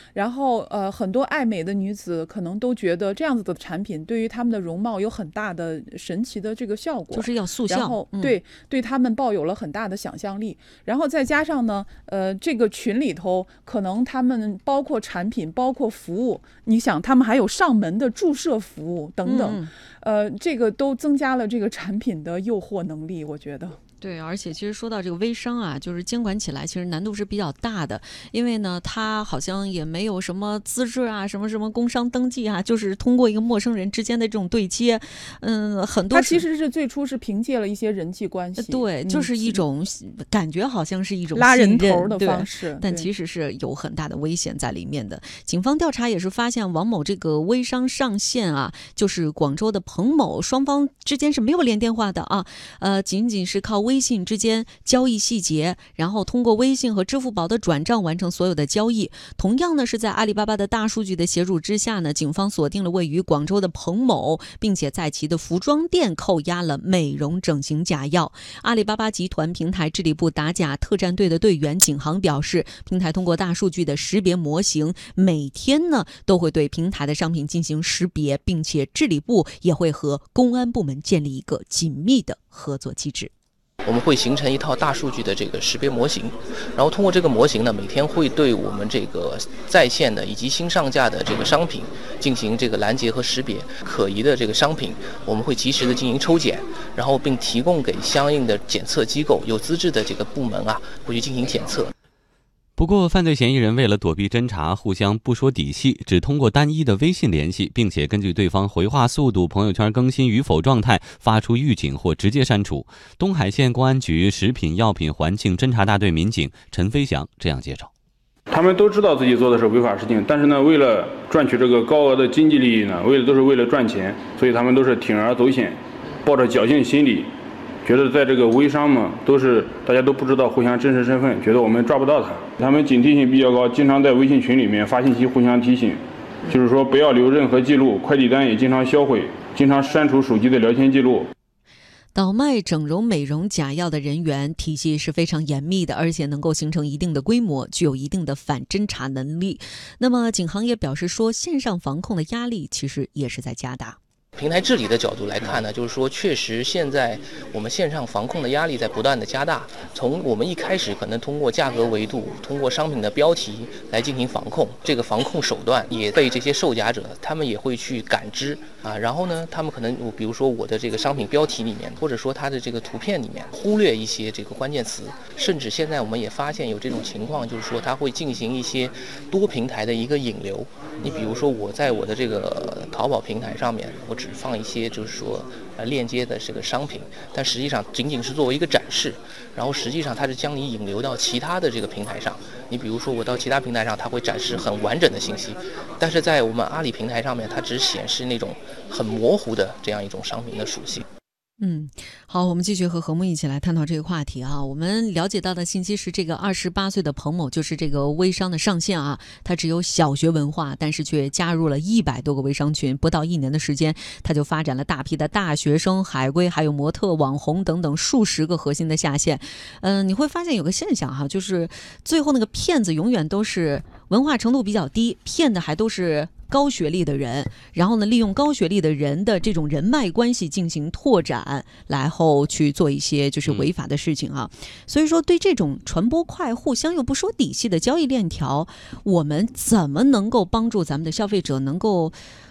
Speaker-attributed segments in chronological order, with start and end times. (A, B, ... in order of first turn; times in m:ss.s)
0:00.1-0:23.8 A
0:07.1-0:08.4 B
0:19.2-0:19.7 B
0:24.0-0:36.4 B
0:36.1-0:39.6 A
0:38.6-1:23.3 B
0:41.3-0:43.1 A
1:23.8-1:41.9 C
1:42.8-1:57.9 D
1:58.5-2:07.3 E
2:07.8-2:21.3 E
2:22.1-2:34.0 B
2:34.4-3:21.0 C
3:21.6-4:02.2 B
3:53.4-3:53.7 D